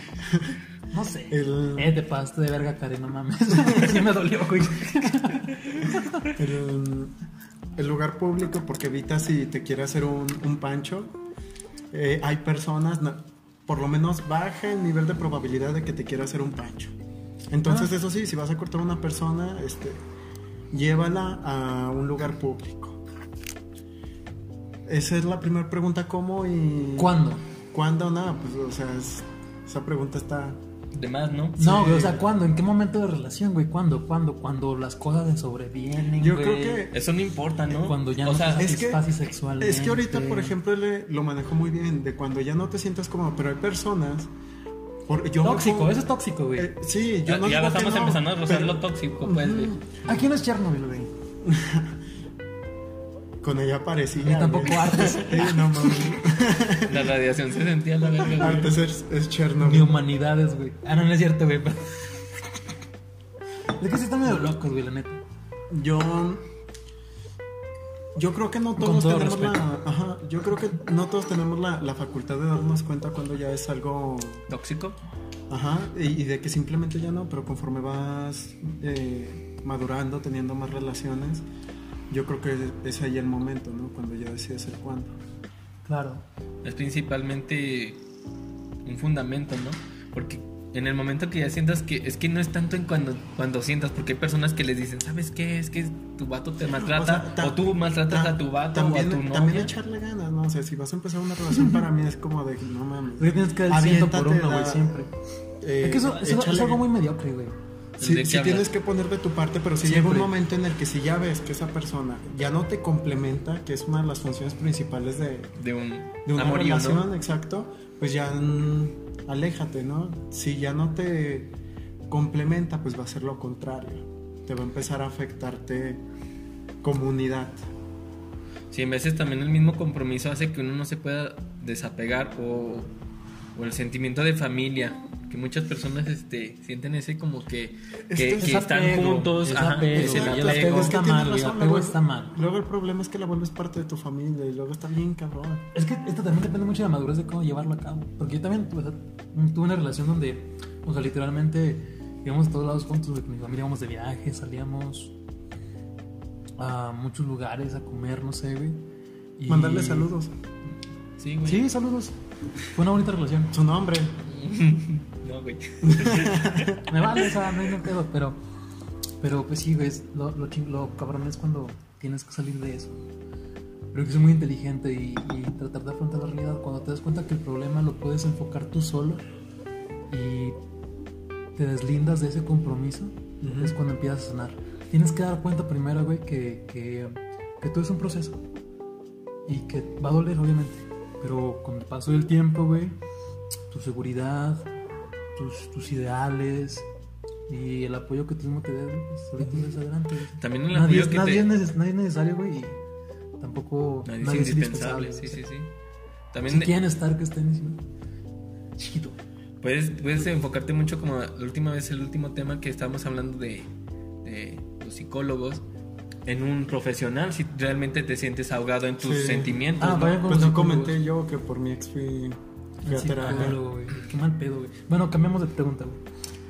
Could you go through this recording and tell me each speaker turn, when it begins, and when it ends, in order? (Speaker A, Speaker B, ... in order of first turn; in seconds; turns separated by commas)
Speaker A: 0.9-6.3, Speaker B: 1.3-1.9, Speaker B: 6.3-7.1, Speaker B: 7.8-11.2, Speaker B: 11.9-16.9, Speaker B: 17.5-20.0, Speaker B: 20.7-23.0, Speaker B: 24.9-27.2, Speaker A: 27.0-27.4, Speaker B: 27.7-30.6, Speaker C: 30.9-31.6, Speaker B: 31.6-32.2, Speaker A: 31.6-36.9, Speaker B: 36.2-37.0, Speaker C: 36.9-38.7, Speaker A: 37.7-40.6, Speaker B: 38.6-39.0, Speaker B: 39.6-44.3, Speaker B: 45.1-46.0, Speaker A: 45.4-46.7, Speaker B: 46.6-50.0, Speaker C: 47.3-49.8, Speaker A: 50.0-51.1, Speaker B: 51.4-52.0, Speaker B: 53.4-57.1, Speaker A: 54.2-55.9, Speaker C: 56.9-58.8, Speaker B: 58.3-59.9, Speaker A: 59.6-62.2, Speaker A: 63.8-65.2, Speaker B: 65.7-66.5, Speaker B: 68.2-74.5, Speaker A: 68.8-69.6, Speaker C: 74.5-75.0, Speaker B: 75.5-81.5, Speaker B: 82.1-85.1, Speaker A: 85.9-86.2, Speaker C: 86.6-88.0, Speaker C: 88.9-99.7, Speaker B: 96.8-104.9, Speaker A: 103.2-105.1, Speaker B: 105.6-106.8, Speaker A: 105.8-107.5, Speaker C: 108.0-108.7, Speaker B: 108.0-115.5, Speaker A: 109.8-110.3, Speaker C: 115.6-117.1, Speaker B: 116.3-121.6, Speaker B: 122.1-126.0, Speaker B: 126.8-127.6, Speaker C: 128.7-132.9, Speaker C: 133.6-141.0, Speaker B: 138.1-138.7, Speaker A: 138.3-142.3, Speaker B: 139.9-145.7, Speaker A: 145.7-155.2, Speaker A: 156.6-158.8, Speaker A: 159.4-160.1, Speaker B: 159.5-160.3, Speaker C: 161.2-161.7, Speaker A: 161.5-162.2, Speaker A: 162.7-163.5, Speaker B: 163.5-164.2, Speaker C: 164.2-166.7, Speaker B: 165.8-166.8, Speaker A: 166.9-168.4, Speaker A: 169.2-173.1, Speaker A: 173.9-179.2, Speaker A: 180.1-180.6, Speaker A: 181.6-188.4, Speaker B: 183.4-183.8, Speaker A: 189.5-192.9, Speaker A: 193.7-194.7, Speaker A: 195.3-196.9, Speaker A: 197.5-202.8, Speaker C: 200.4-201.5, Speaker A: 203.4-205.4, Speaker C: 204.1-205.7, Speaker C: 206.3-206.7, Speaker A: 206.5-207.8, Speaker A: 208.8-209.2, Speaker C: 209.6-213.7, Speaker C: 214.2-215.6, Speaker C: 216.3-220.2, Speaker B: 219.0-223.6, Speaker A: 219.8-221.0, Speaker A: 222.8-226.0